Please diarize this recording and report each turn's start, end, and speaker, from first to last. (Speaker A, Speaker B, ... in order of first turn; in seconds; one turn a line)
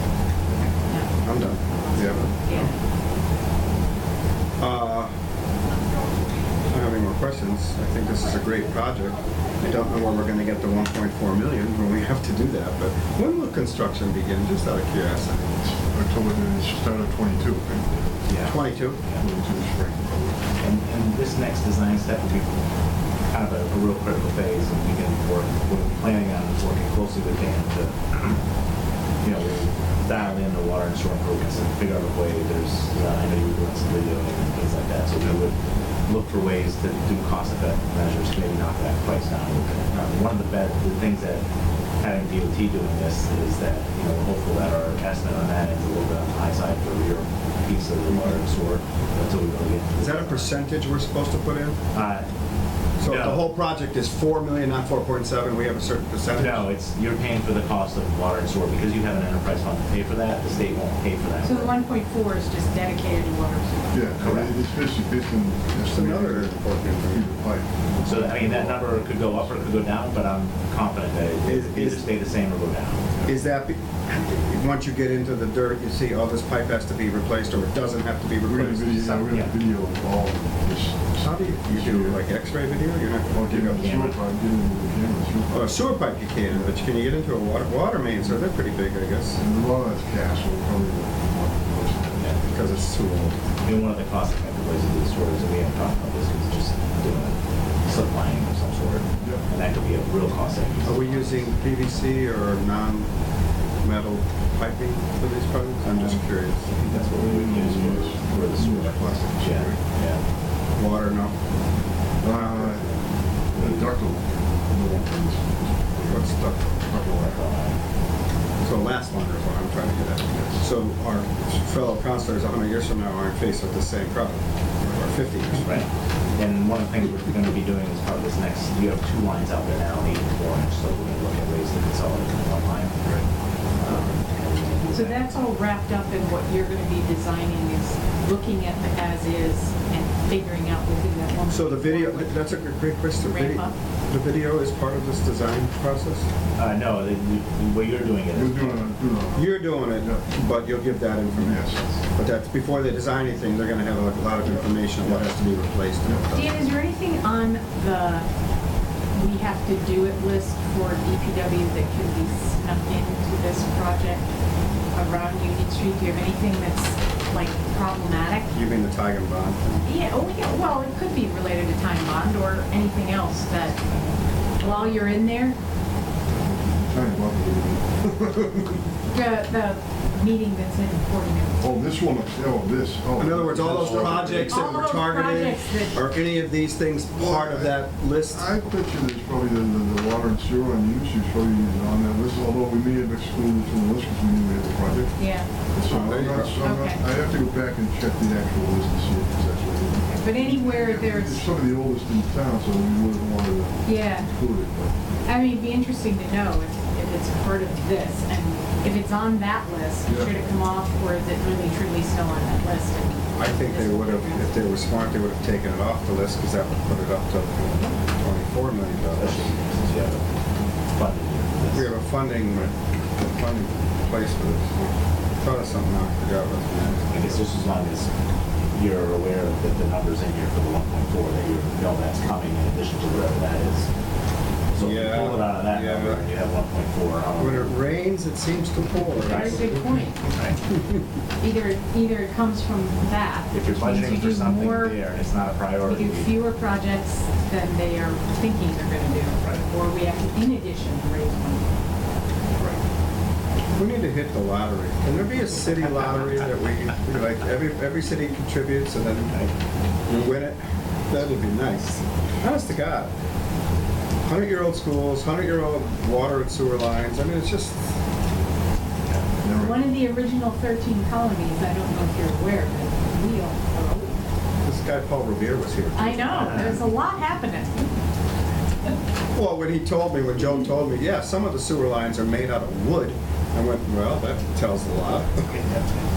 Speaker A: 0.8-2.8
Speaker B: 1.2-2.7
Speaker B: 4.6-5.1
Speaker B: 6.7-15.6
Speaker C: 15.7-18.2
Speaker D: 18.3-19.3
Speaker B: 18.4-19.0
Speaker C: 19.2-20.5
Speaker D: 20.6-22.6
Speaker D: 23.3-28.4
Speaker D: 29.2-35.6
Speaker D: 36.1-41.5
Speaker D: 42.0-50.5
Speaker B: 50.0-51.8
Speaker D: 51.9-52.3
Speaker B: 53.0-56.7
Speaker D: 53.0-53.5
Speaker D: 56.4-61.8
Speaker A: 61.4-64.0
Speaker C: 63.9-69.8
Speaker D: 64.2-64.6
Speaker B: 65.9-67.3
Speaker D: 68.0-73.0
Speaker B: 71.5-72.2
Speaker B: 73.3-79.3
Speaker C: 78.5-82.3
Speaker B: 81.2-84.0
Speaker C: 83.3-85.9
Speaker D: 83.8-84.2
Speaker B: 85.5-89.4
Speaker C: 86.5-86.7
Speaker C: 89.4-92.9
Speaker D: 92.1-92.4
Speaker B: 92.5-93.4
Speaker D: 93.6-101.5
Speaker C: 99.2-99.5
Speaker B: 100.8-103.1
Speaker B: 103.8-106.7
Speaker D: 105.9-110.2
Speaker C: 106.8-109.8
Speaker B: 110.8-111.4
Speaker C: 112.2-117.5
Speaker B: 112.4-112.7
Speaker B: 116.1-116.7
Speaker D: 117.2-117.8
Speaker B: 118.6-124.4
Speaker C: 120.2-120.7
Speaker B: 125.0-125.7
Speaker D: 125.5-135.5
Speaker A: 134.9-142.6
Speaker B: 141.5-146.3
Speaker A: 143.2-143.7
Speaker D: 146.6-148.9
Speaker C: 148.3-150.4
Speaker B: 149.4-156.6
Speaker C: 151.3-151.9
Speaker C: 154.5-155.3
Speaker A: 156.3-158.3
Speaker A: 159.1-164.3
Speaker A: 164.9-168.5
Speaker B: 168.5-169.9
Speaker A: 169.8-173.8
Speaker D: 173.7-175.2
Speaker A: 174.6-175.6
Speaker C: 176.3-178.9
Speaker A: 179.1-181.7
Speaker C: 181.6-184.6
Speaker B: 183.2-188.5
Speaker D: 183.9-184.2
Speaker A: 184.5-185.9
Speaker C: 187.1-204.9
Speaker A: 195.2-195.5
Speaker B: 195.9-196.6
Speaker A: 196.6-197.0
Speaker A: 200.1-201.5
Speaker A: 203.8-204.3
Speaker A: 205.2-214.6
Speaker C: 210.1-210.4
Speaker B: 213.3-219.6
Speaker D: 219.1-220.3
Speaker D: 220.9-221.9
Speaker B: 221.7-224.8
Speaker B: 225.4-227.5
Speaker D: 227.1-228.1
Speaker D: 228.7-233.9
Speaker D: 234.7-237.8
Speaker B: 234.8-236.2
Speaker B: 237.4-239.9
Speaker D: 239.2-239.8
Speaker A: 239.2-240.2
Speaker D: 240.3-240.6
Speaker A: 241.4-245.0
Speaker D: 243.5-246.5
Speaker A: 245.8-251.7
Speaker D: 249.4-249.7
Speaker B: 253.7-259.4
Speaker D: 255.6-256.5
Speaker B: 260.1-263.1
Speaker B: 264.2-267.8
Speaker D: 269.0-269.3
Speaker C: 269.4-269.9
Speaker A: 269.6-274.2
Speaker B: 274.6-276.8
Speaker A: 275.9-277.8
Speaker B: 279.3-285.5
Speaker D: 285.5-286.0